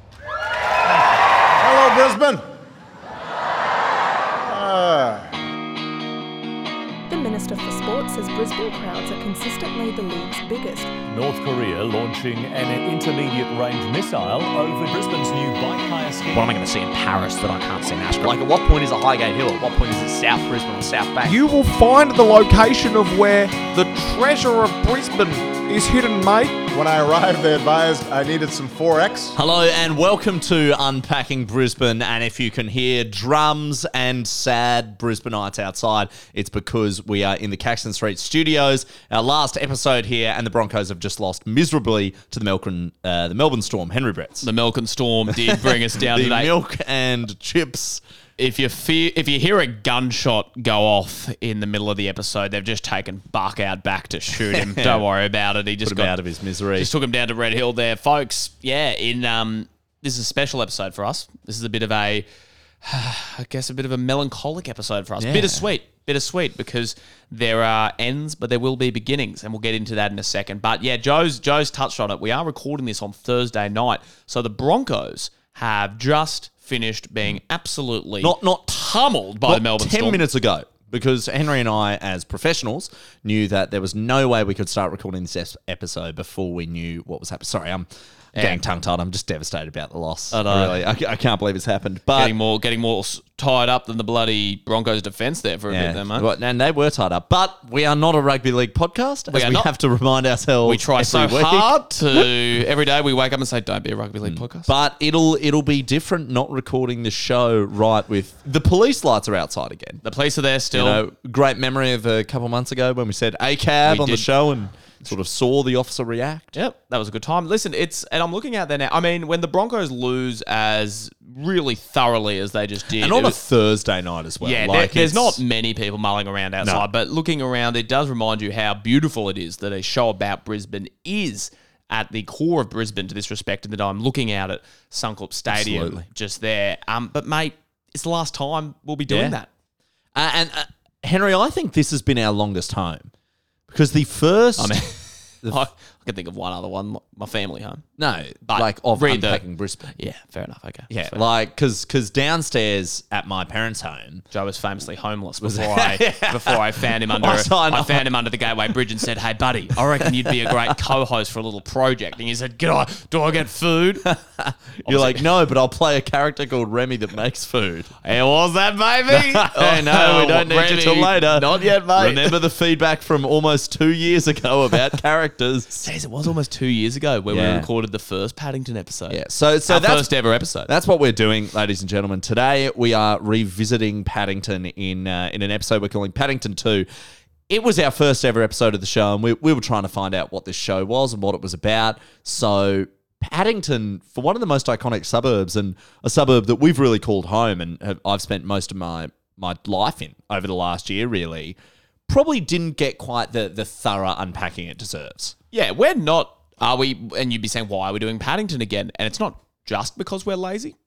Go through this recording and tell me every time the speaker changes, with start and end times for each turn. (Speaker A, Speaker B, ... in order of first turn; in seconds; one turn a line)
Speaker A: 1.6-2.4
Speaker A: 4.4-5.3
Speaker B: 7.1-10.9
Speaker C: 11.1-16.5
Speaker D: 16.3-21.4
Speaker A: 26.6-29.4
Speaker D: 29.3-44.5
Speaker E: 44.4-46.5
Speaker D: 45.3-48.0
Speaker E: 48.4-56.2
Speaker D: 54.5-55.0
Speaker D: 55.8-56.9
Speaker E: 56.7-62.2
Speaker E: 62.8-80.2
Speaker D: 65.2-65.7
Speaker D: 78.2-92.3
Speaker E: 88.3-88.6
Speaker E: 90.3-90.8
Speaker E: 92.1-96.3
Speaker D: 95.7-102.2
Speaker E: 99.3-99.7
Speaker E: 100.6-104.7
Speaker D: 104.2-110.0
Speaker E: 110.0-111.0
Speaker D: 110.7-116.5
Speaker E: 113.8-114.3
Speaker E: 116.5-123.4
Speaker D: 123.0-125.4
Speaker E: 124.4-139.5
Speaker D: 135.5-136.1
Speaker D: 139.1-139.3
Speaker D: 140.1-143.1
Speaker D: 143.7-144.8
Speaker E: 144.6-147.8
Speaker D: 148.0-149.9
Speaker E: 148.4-149.4
Speaker E: 149.9-151.2
Speaker D: 150.9-154.2
Speaker E: 154.3-164.1
Speaker D: 155.4-158.1
Speaker D: 160.0-160.7
Speaker D: 164.0-167.9
Speaker E: 164.8-165.2
Speaker E: 168.0-172.4
Speaker D: 169.1-175.8
Speaker E: 175.8-180.7
Speaker D: 177.3-177.7
Speaker D: 179.1-180.1
Speaker D: 180.7-186.9
Speaker D: 187.5-201.6
Speaker D: 202.1-205.3
Speaker E: 205.5-210.8